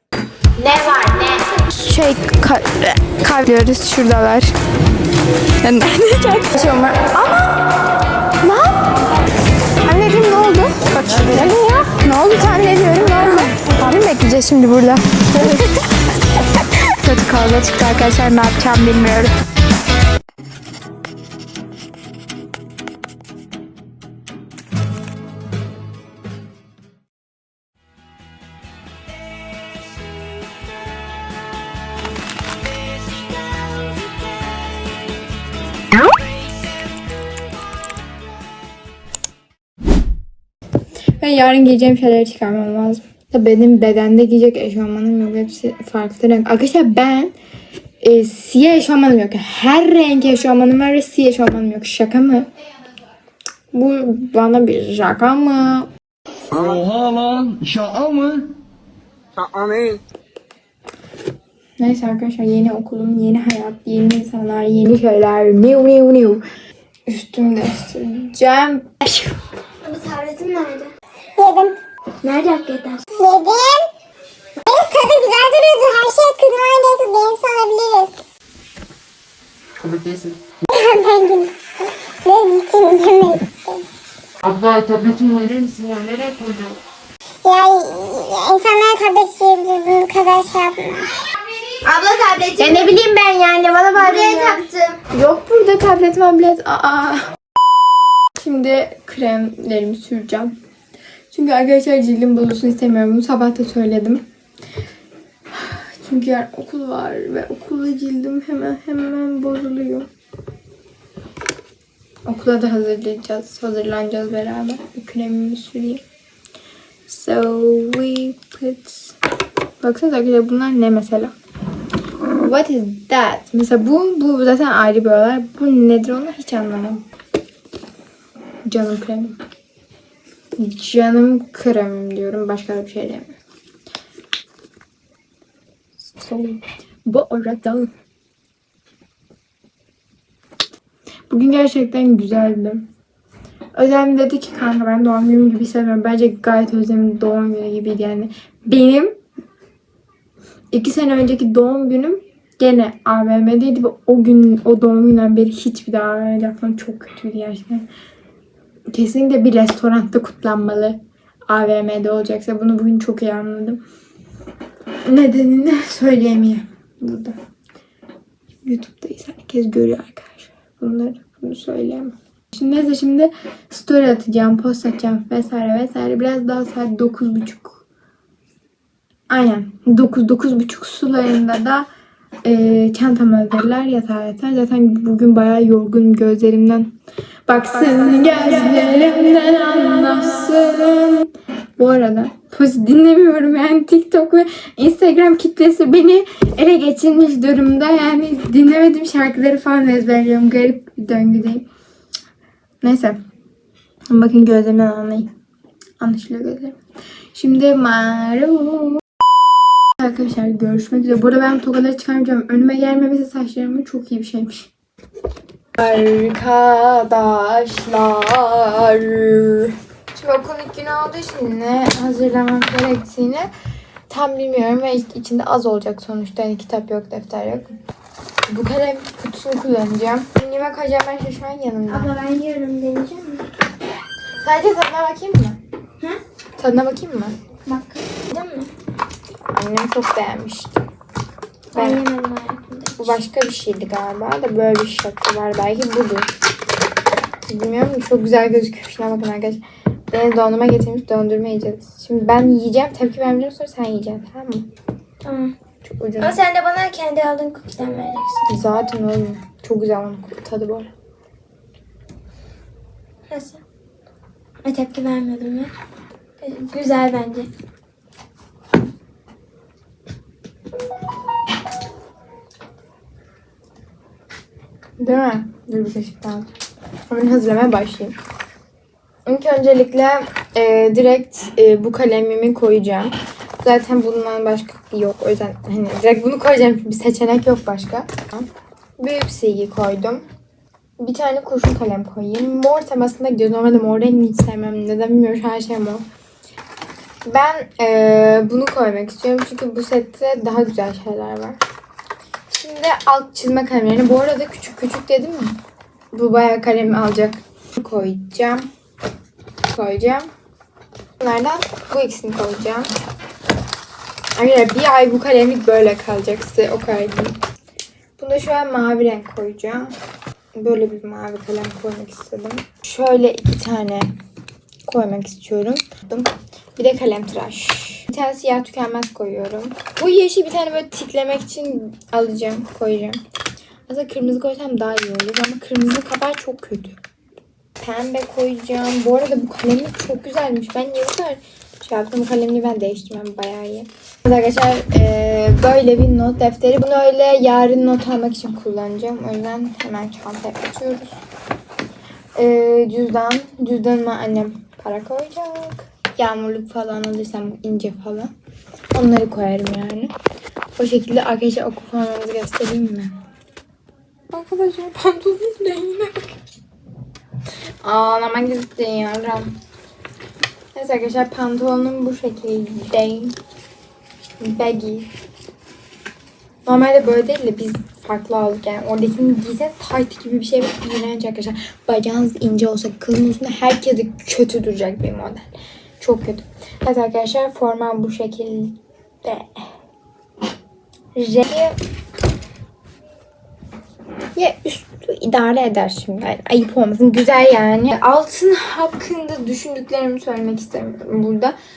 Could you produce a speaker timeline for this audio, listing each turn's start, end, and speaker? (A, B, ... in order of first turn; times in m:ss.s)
0:00.6-0:04.5 A
0:05.6-0:07.6 A
0:08.4-0:08.9 A
0:09.8-0:19.3 A
0:41.2-0:47.3 A
0:48.0-0:52.5 A
0:53.7-0:55.9 A
0:56.5-0:58.6 B
0:59.4-1:00.0 B
0:59.4-1:00.0 C
1:01.8-1:06.4 A
1:07.1-1:09.3 A
1:09.8-1:10.9 D
1:11.4-1:11.8 C
1:12.2-1:13.2 D
1:13.2-1:13.9 C
1:14.6-1:18.2 C
1:19.8-1:23.8 C
1:24.5-1:25.1 B
1:24.7-1:26.8 E
1:25.7-1:26.4 B
1:27.4-1:31.2 C
1:31.6-1:33.0 D
1:32.6-1:37.4 A
1:33.9-1:35.0 D
1:38.3-1:40.6 A
1:41.3-1:44.2 A
1:45.5-1:50.1 A
1:52.2-1:56.0 A
1:57.1-1:59.2 A
1:59.8-2:01.4 A
2:02.4-2:07.0 A
2:08.6-2:09.4 A
2:10.6-2:13.3 A
2:16.1-2:17.9 A
2:21.3-2:22.9 A
2:23.7-2:29.2 A
2:30.7-2:37.9 A
2:38.9-2:43.8 A
2:45.0-2:47.4 A
2:48.6-2:57.8 A
2:59.3-3:01.9 A
3:02.4-3:07.0 A
3:07.5-3:21.6 A
3:22.8-3:23.2 A
3:24.1-3:25.3 A
3:26.0-3:26.8 A
3:27.3-3:29.0 A
3:29.9-3:34.7 A
3:35.8-3:43.5 A
3:44.1-3:47.8 A
3:48.5-3:52.1 A
3:51.9-3:53.5 D
3:54.4-3:55.6 A
3:56.6-3:57.4 A
3:57.6-3:58.7 D
3:59.5-4:00.8 A
4:01.7-4:03.2 D
4:01.7-4:02.0 A
4:03.0-4:06.3 A
4:07.5-4:14.7 A
4:15.2-4:15.5 D
4:15.8-4:16.4 A
4:16.2-4:18.5 D
4:18.5-4:20.9 A
4:23.3-4:23.6 D
4:24.6-4:25.7 D
4:26.4-4:27.5 D
4:35.0-4:36.5 A
4:37.1-4:38.1 A
4:39.2-4:50.2 A
4:51.0-4:56.0 A
4:57.2-5:01.6 A
5:02.5-5:08.7 A
5:09.7-5:10.3 A
5:11.2-5:12.9 A
5:14.3-5:17.4 A
5:18.2-5:20.0 A
5:20.5-5:24.1 A
5:24.8-5:33.2 A
5:33.9-5:37.0 A
5:37.8-5:51.2 A
5:52.3-5:58.3 A
5:58.9-6:00.1 A
6:00.8-6:03.1 A
6:04.3-6:06.4 A
6:07.8-6:09.6 A
6:10.7-6:13.4 A
6:14.4-6:15.1 A
6:16.6-6:29.7 A
6:31.2-6:31.8 A
6:34.3-6:41.6 A